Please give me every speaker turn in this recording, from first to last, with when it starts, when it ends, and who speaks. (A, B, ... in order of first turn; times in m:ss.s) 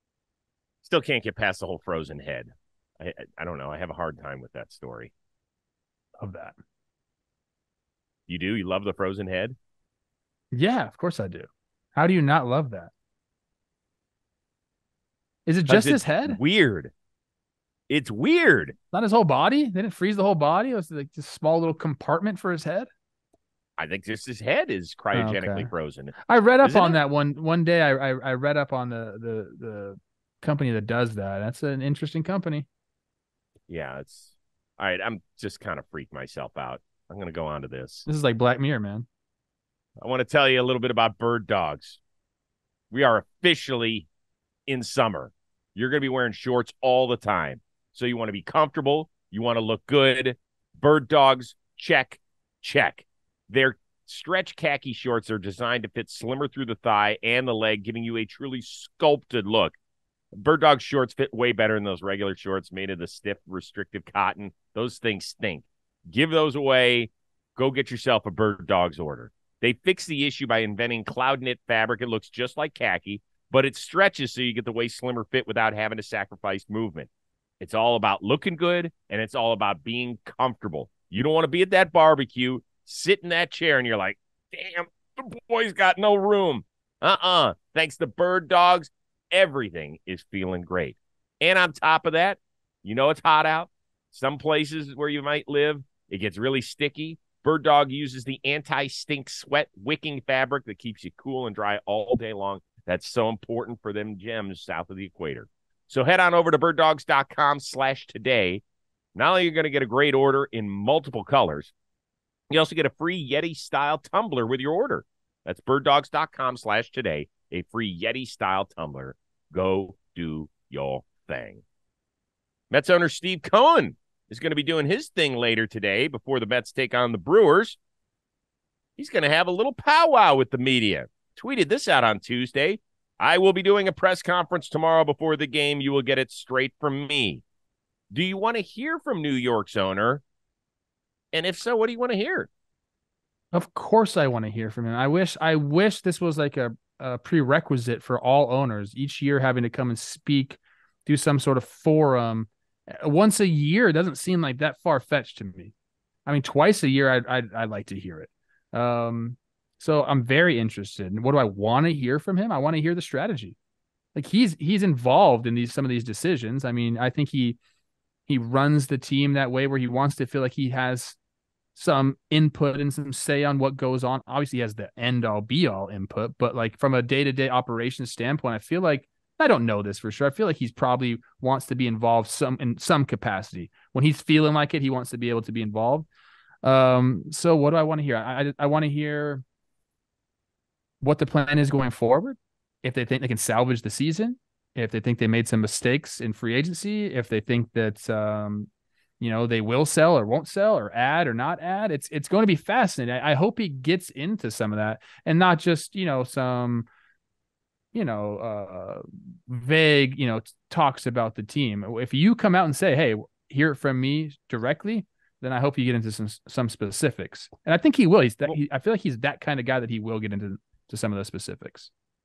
0:00.8-0:05.1 A
0:06.2-0:06.6 B
0:08.3-0:09.6 A
0:10.5-0:12.9 B
0:15.4-0:16.4 B
0:15.7-0:16.9 A
0:17.9-0:18.8 A
0:18.9-0:22.9 B
0:23.8-0:27.0 A
0:25.1-0:32.7 B
0:33.7-0:38.0 A
0:38.0-0:39.1 B
0:40.0-0:42.0 A
0:42.9-0:44.1 A
0:44.7-0:59.8 A
1:00.3-1:17.1 A
1:17.6-1:48.6 A
1:49.1-1:51.7 A
1:52.5-2:01.6 A
2:02.7-2:07.8 A
2:09.0-2:17.4 A
2:18.1-2:20.2 A
2:21.3-2:22.5 A
2:23.5-2:35.7 B
2:36.2-2:43.6 B
2:44.1-2:47.6 B
2:48.3-2:51.2 B
2:51.8-3:06.1 B
3:06.6-3:09.4 B
3:11.0-3:18.7 B
3:19.2-3:26.9 B
3:27.9-3:41.9 B